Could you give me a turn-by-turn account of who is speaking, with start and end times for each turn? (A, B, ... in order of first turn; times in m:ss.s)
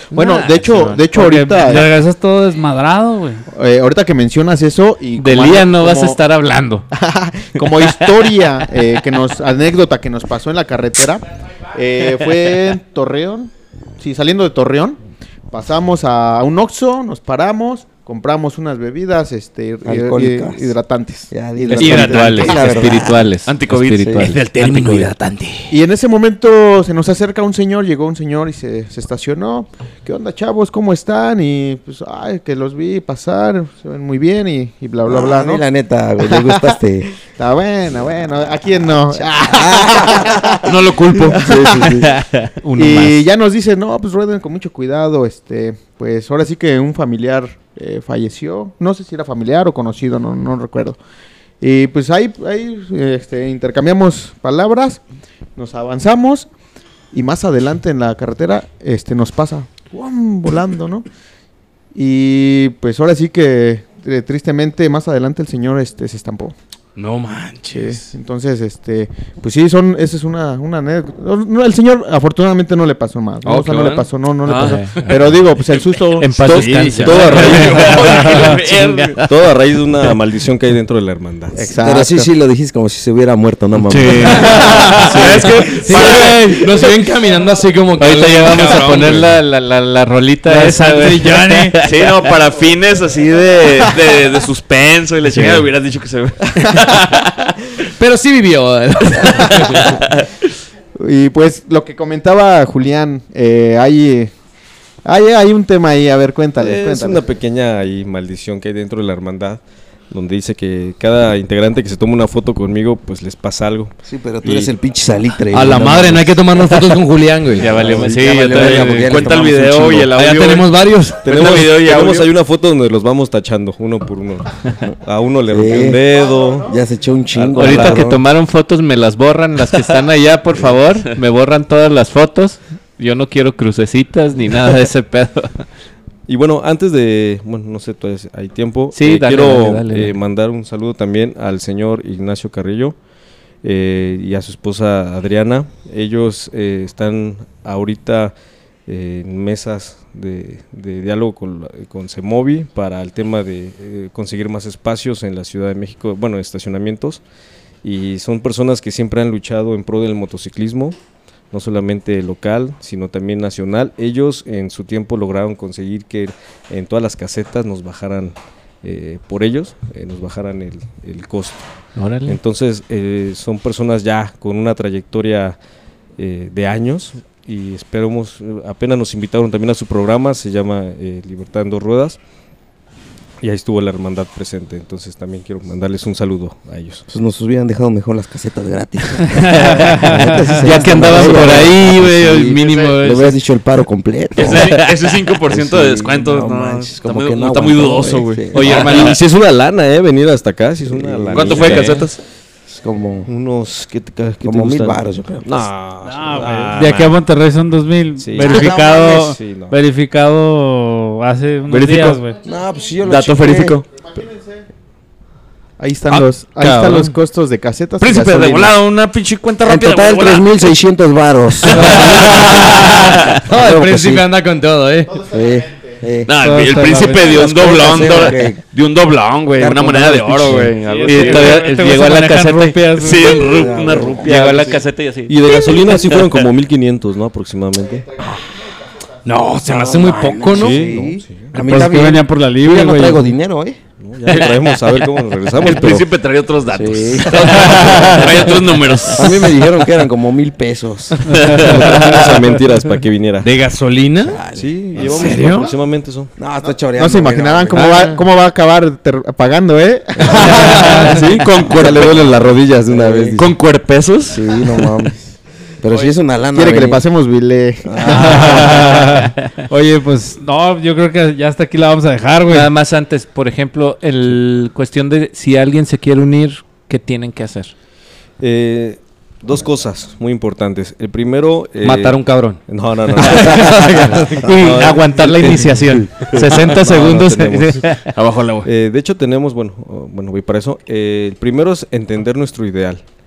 0:00.1-0:01.0 A
0:00.1-0:01.9 B
0:00.8-0:03.4 C
0:03.5-0:06.2 B
0:05.2-0:06.9 A
0:06.9-0:15.0 B
0:07.6-0:08.3 A
0:15.5-0:22.8 B
0:19.8-0:20.7 D
0:21.3-0:23.3 D
0:21.7-0:25.1 A
0:23.4-0:24.2 E
0:24.0-0:24.3 D
0:24.2-0:25.8 F
0:25.7-0:35.7 B
0:35.0-0:37.1 D
0:36.2-0:42.0 B
0:39.1-0:40.7 D
0:40.6-0:41.4 E
0:41.3-0:42.1 D
0:42.0-0:43.2 A
0:42.8-0:51.0 B
0:51.6-0:55.0 B
0:55.6-0:56.5 B
0:57.1-1:01.0 B
1:02.0-1:06.5 B
1:07.0-1:08.0 F
1:07.7-1:17.2 B
1:13.4-1:14.1 F
1:14.4-1:15.0 E
1:14.5-1:15.4 A
1:16.2-1:19.2 A
1:16.4-1:18.5 G
1:16.6-1:19.3 E
1:19.2-1:21.6 G
1:21.6-1:22.3 B
1:21.8-1:25.4 D
1:23.9-1:29.3 F
1:24.0-1:26.3 A
1:24.2-1:26.9 E
1:28.0-1:32.0 A
1:30.5-1:31.8 C
1:31.8-1:37.3 E
1:35.4-1:35.6 A
1:38.0-1:40.0 F
1:39.6-1:40.3 E
1:41.0-1:44.3 B
1:45.0-1:47.2 B
1:46.6-1:54.7 G
1:54.0-1:56.5 D
1:55.5-1:58.0 F
1:57.6-1:59.2 A
1:57.6-2:00.1 D
1:57.7-2:00.7 E
2:00.1-2:01.4 F
2:01.2-2:06.7 G
2:01.3-2:02.3 E
2:05.5-2:06.0 D
2:06.7-2:08.2 D
2:07.3-2:08.0 G
2:07.6-2:15.6 A
2:16.3-2:23.0 G
2:18.9-2:20.2 A
2:23.6-2:28.3 G
2:28.9-2:37.2 G
2:37.8-2:41.0 G
2:41.5-2:51.6 G
2:52.0-2:52.4 A
2:52.3-2:55.6 G
2:56.2-3:02.2 G
3:03.4-3:07.0 G
3:07.1-3:19.0 D
3:09.3-3:11.0 C
3:10.6-3:12.7 A
3:10.8-3:12.0 F
3:10.8-3:11.7 E
3:12.3-3:13.3 E
3:14.3-3:19.2 E
3:18.5-3:19.1 A
3:18.5-3:19.1 F
3:18.6-3:22.1 G
3:20.9-3:22.0 D
3:21.3-3:22.2 E
3:22.7-3:23.3 D
3:23.3-3:27.2 G
3:24.4-3:25.6 D
3:26.0-3:32.4 C
3:28.2-3:29.8 G
3:28.4-3:29.3 D
3:31.7-3:32.2 E
3:32.4-3:33.8 D
3:33.0-3:33.8 E
3:33.9-3:34.6 B
3:35.8-3:38.7 B
3:38.0-3:40.5 E
3:39.6-3:42.9 D
3:41.6-3:43.4 E
3:42.1-3:45.2 F
3:43.5-3:44.3 D
3:45.1-3:46.0 B
3:45.3-3:46.3 D
3:46.3-3:51.7 E
3:46.4-3:47.7 C
3:47.2-3:48.6 D
3:49.5-3:50.7 D
3:50.8-3:53.3 C
3:51.0-3:52.8 A
3:52.9-3:56.3 E
3:53.2-3:54.4 D
3:54.2-3:55.3 A
3:55.3-3:58.1 G
3:59.2-4:00.9 F
3:59.6-4:03.8 D
4:00.5-4:01.6 G
4:01.6-4:03.3 C
4:04.0-4:06.1 G
4:04.3-4:04.6 E
4:05.6-4:09.5 E
4:06.7-4:12.0 D
4:11.3-4:12.3 E
4:11.6-4:13.5 G
4:13.4-4:14.4 F
4:14.2-4:15.6 D
4:14.6-4:16.3 G
4:15.1-4:15.7 F
4:15.2-4:15.7 E
4:16.4-4:18.2 D
4:16.6-4:21.0 B
4:20.2-4:23.4 G
4:20.3-4:21.0 D
4:20.5-4:22.3 E
4:20.8-4:21.2 C
4:21.7-4:22.1 D
4:22.8-4:23.5 D
4:23.3-4:24.5 E
4:24.3-4:27.0 D
4:26.5-4:28.8 B
4:27.9-4:28.8 D
4:28.0-4:32.7 C
4:29.0-4:29.3 A
4:32.5-4:37.7 A
4:38.4-4:48.0 G
4:41.8-4:42.6 F
4:43.1-4:46.7 F
4:43.6-4:48.1 A
4:48.2-4:48.7 F
4:48.6-4:53.0 G